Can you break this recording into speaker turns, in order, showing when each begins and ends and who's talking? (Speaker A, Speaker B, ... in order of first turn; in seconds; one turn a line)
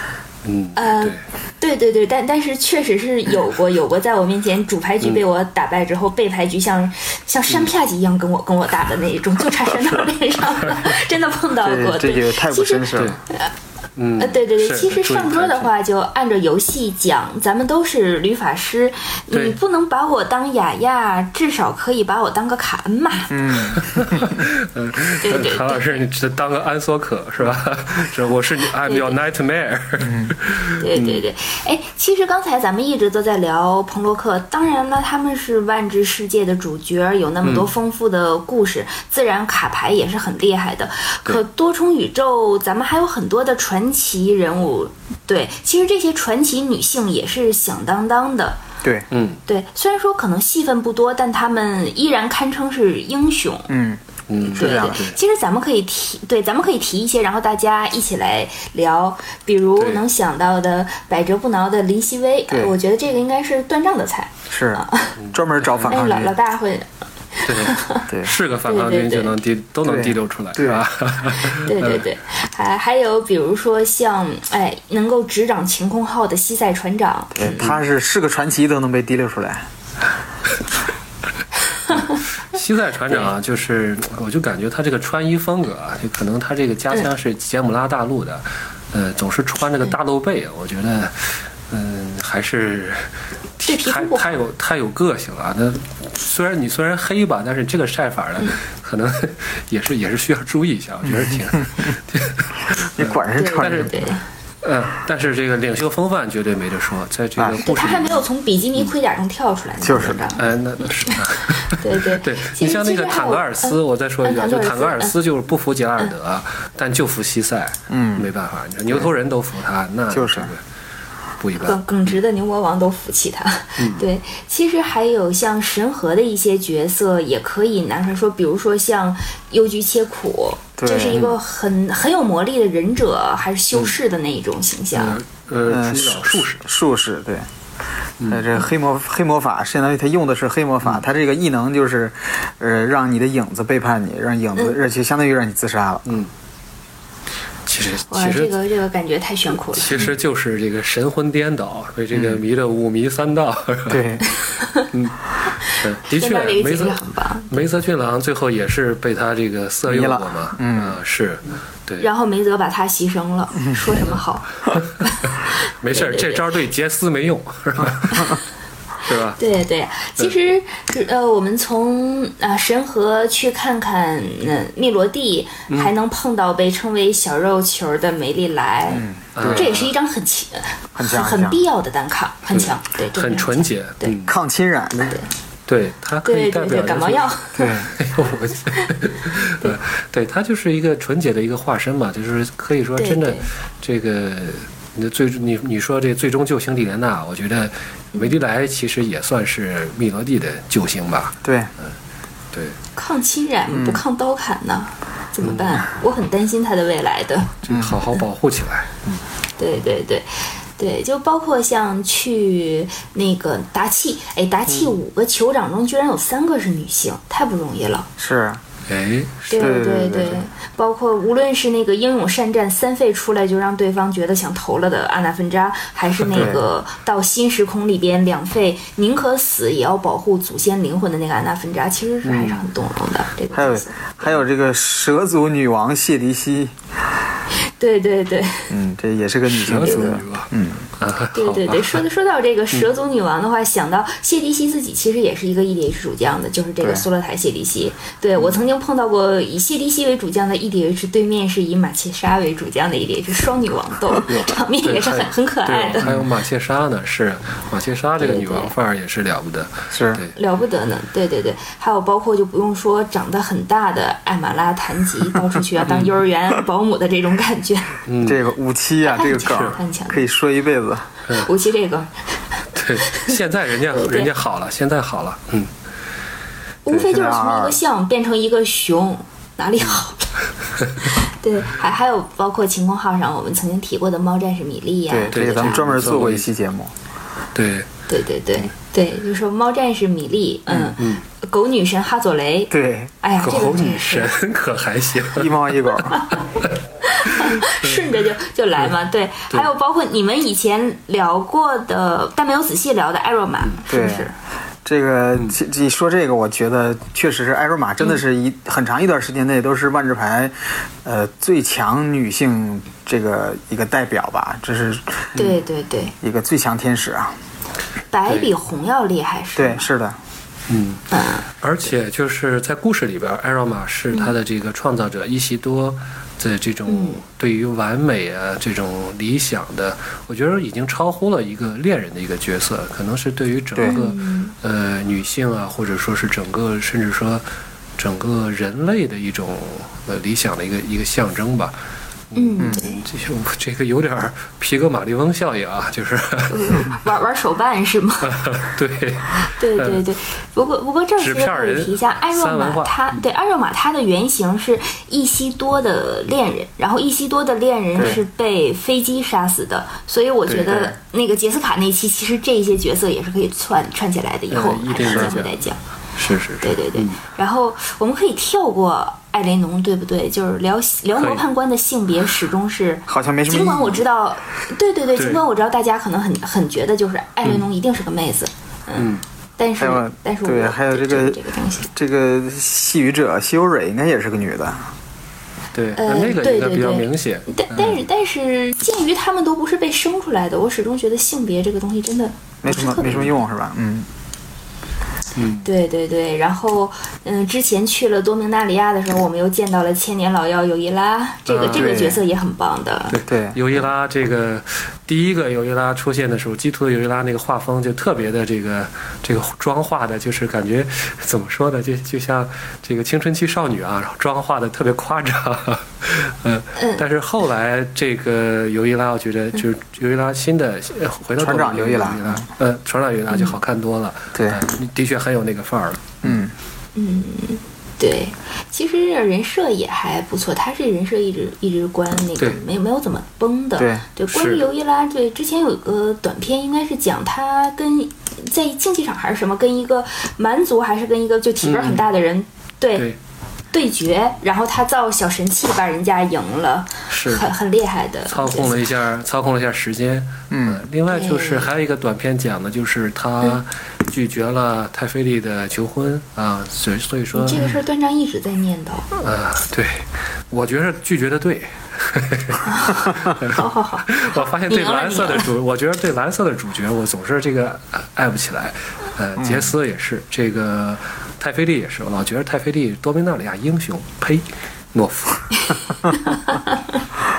Speaker A: 0.5-1.2
Speaker B: 0.8-13.5
Speaker C: 11.6-13.2
Speaker A: 14.0-15.7
Speaker B: 14.2-24.2
Speaker A: 19.3-19.6
Speaker C: 23.3-24.2
Speaker A: 23.8-31.2
Speaker B: 25.2-26.0
Speaker B: 28.9-29.1
Speaker C: 30.0-30.3
Speaker B: 30.8-48.6
Speaker A: 37.4-37.7
Speaker A: 49.1-49.4
Speaker B: 49.5-53.7
Speaker C: 53.7-55.0
Speaker A: 54.3-55.2
Speaker B: 54.6-65.2
Speaker C: 62.5-62.8
Speaker C: 64.5-66.3
Speaker A: 65.2-66.0
Speaker B: 65.9-68.1
Speaker A: 67.5-72.1
Speaker C: 68.1-68.3
Speaker B: 68.7-69.3
Speaker C: 69.8-70.8
Speaker B: 71.6-77.7
Speaker C: 77.3-79.7
Speaker A: 81.9-93.1
Speaker B: 81.9-82.2
Speaker A: 93.6-104.0
Speaker B: 93.7-94.4
Speaker C: 101.1-101.8
Speaker C: 103.0-104.0
Speaker B: 103.3-104.2
Speaker A: 104.6-108.3
Speaker C: 107.4-107.6
Speaker B: 107.6-115.1
Speaker C: 109.8-110.2
Speaker A: 110.3-120.6
Speaker C: 117.9-118.3
Speaker C: 120.1-120.5
Speaker A: 121.4-122.1
Speaker B: 121.6-135.2
Speaker A: 123.8-124.0
Speaker C: 130.8-131.2
Speaker A: 131.1-131.4
Speaker A: 134.9-136.6
Speaker C: 135.7-137.5
Speaker A: 138.2-138.5
Speaker C: 138.3-146.1
Speaker A: 147.7-148.6
Speaker B: 148.1-150.1
Speaker A: 149.7-154.1
Speaker C: 152.1-152.4
Speaker C: 153.9-154.2
Speaker B: 154.6-154.9
Speaker A: 154.9-162.1
Speaker B: 155.6-157.7
Speaker C: 159.9-161.0
Speaker B: 162.0-165.3
Speaker A: 164.7-165.3
Speaker A: 165.8-168.4
Speaker B: 165.9-166.6
Speaker A: 169.0-169.4
Speaker B: 169.4-184.2
Speaker C: 178.9-179.7
Speaker A: 179.4-179.9
Speaker C: 180.9-181.6
Speaker A: 182.5-184.3
Speaker C: 184.3-185.1
Speaker A: 185.7-187.3
Speaker B: 186.2-187.7
Speaker C: 187.6-187.9
Speaker A: 188.0-201.9
Speaker B: 193.0-193.5
Speaker C: 201.4-201.7
Speaker B: 203.0-207.6
Speaker C: 203.7-204.0
Speaker A: 205.4-205.8
Speaker A: 207.6-209.2
Speaker C: 207.7-208.0
Speaker B: 209.6-218.1
Speaker C: 218.2-218.6
Speaker A: 218.9-219.8
Speaker B: 219.5-234.4
Speaker C: 219.6-220.4
Speaker C: 226.3-226.6
Speaker A: 232.2-232.6
Speaker C: 233.5-236.7
Speaker B: 237.8-238.7
Speaker C: 238.7-240.9
Speaker A: 239.5-242.0
Speaker B: 239.8-240.2
Speaker B: 241.3-256.1
Speaker C: 246.8-247.1
Speaker A: 254.3-260.4
Speaker B: 258.2-258.7
Speaker C: 259.9-260.2
Speaker B: 260.4-268.0
Speaker A: 265.8-266.1
Speaker A: 268.1-268.4
Speaker C: 268.2-271.1
Speaker B: 269.0-270.3
Speaker A: 269.5-269.8
Speaker B: 271.3-272.2
Speaker A: 272.7-275.7
Speaker B: 273.1-273.4
Speaker B: 273.9-274.3
Speaker B: 276.9-280.3
Speaker C: 276.9-277.8
Speaker B: 281.0-286.1
Speaker C: 285.1-286.9
Speaker A: 285.3-286.5
Speaker A: 287.6-287.9
Speaker B: 288.1-294.3
Speaker A: 290.8-291.2
Speaker C: 292.7-293.1
Speaker A: 293.4-295.6
Speaker C: 295.4-296.2
Speaker B: 296.1-296.4
Speaker B: 297.0-304.3
Speaker A: 297.3-298.0
Speaker C: 303.9-304.3
Speaker C: 304.9-315.3
Speaker A: 315.3-315.6
Speaker B: 315.4-316.1
Speaker C: 316.2-317.4
Speaker B: 318.1-319.9
Speaker C: 319.6-320.2
Speaker A: 320.7-321.0
Speaker B: 321.1-321.5
Speaker A: 321.6-337.4
Speaker B: 326.9-327.2
Speaker C: 333.8-334.0
Speaker B: 333.8-334.5
Speaker A: 338.0-341.8
Speaker A: 342.3-346.8
Speaker B: 342.4-343.0
Speaker B: 346.5-348.4
Speaker A: 348.3-350.0
Speaker B: 349.5-365.8
Speaker A: 351.2-353.1
Speaker A: 360.7-360.9
Speaker A: 364.5-365.6
Speaker A: 366.2-367.2
Speaker B: 366.6-381.9
Speaker A: 371.2-371.4
Speaker C: 373.1-374.0
Speaker A: 375.2-375.4
Speaker A: 379.0-379.2
Speaker C: 379.8-381.4
Speaker C: 381.9-384.9
Speaker A: 385.7-388.0
Speaker B: 386.0-393.3
Speaker C: 392.6-394.1
Speaker A: 395.4-395.7
Speaker B: 395.6-403.2
Speaker A: 401.5-402.1
Speaker C: 401.7-402.2
Speaker A: 403.1-426.3
Speaker C: 403.3-403.6
Speaker B: 416.8-417.0
Speaker C: 421.4-422.4
Speaker C: 424.4-424.6
Speaker C: 426.2-426.5
Speaker B: 427.0-443.1
Speaker C: 433.8-434.0
Speaker A: 434.3-434.7
Speaker A: 441.6-442.1
Speaker B: 443.7-448.9
Speaker A: 447.1-447.5
Speaker A: 448.3-457.6
Speaker C: 450.5-450.8
Speaker B: 451.1-451.7
Speaker B: 457.3-459.1
Speaker A: 459.1-475.9
Speaker B: 462.6-465.5
Speaker C: 469.4-469.7
Speaker B: 475.7-477.0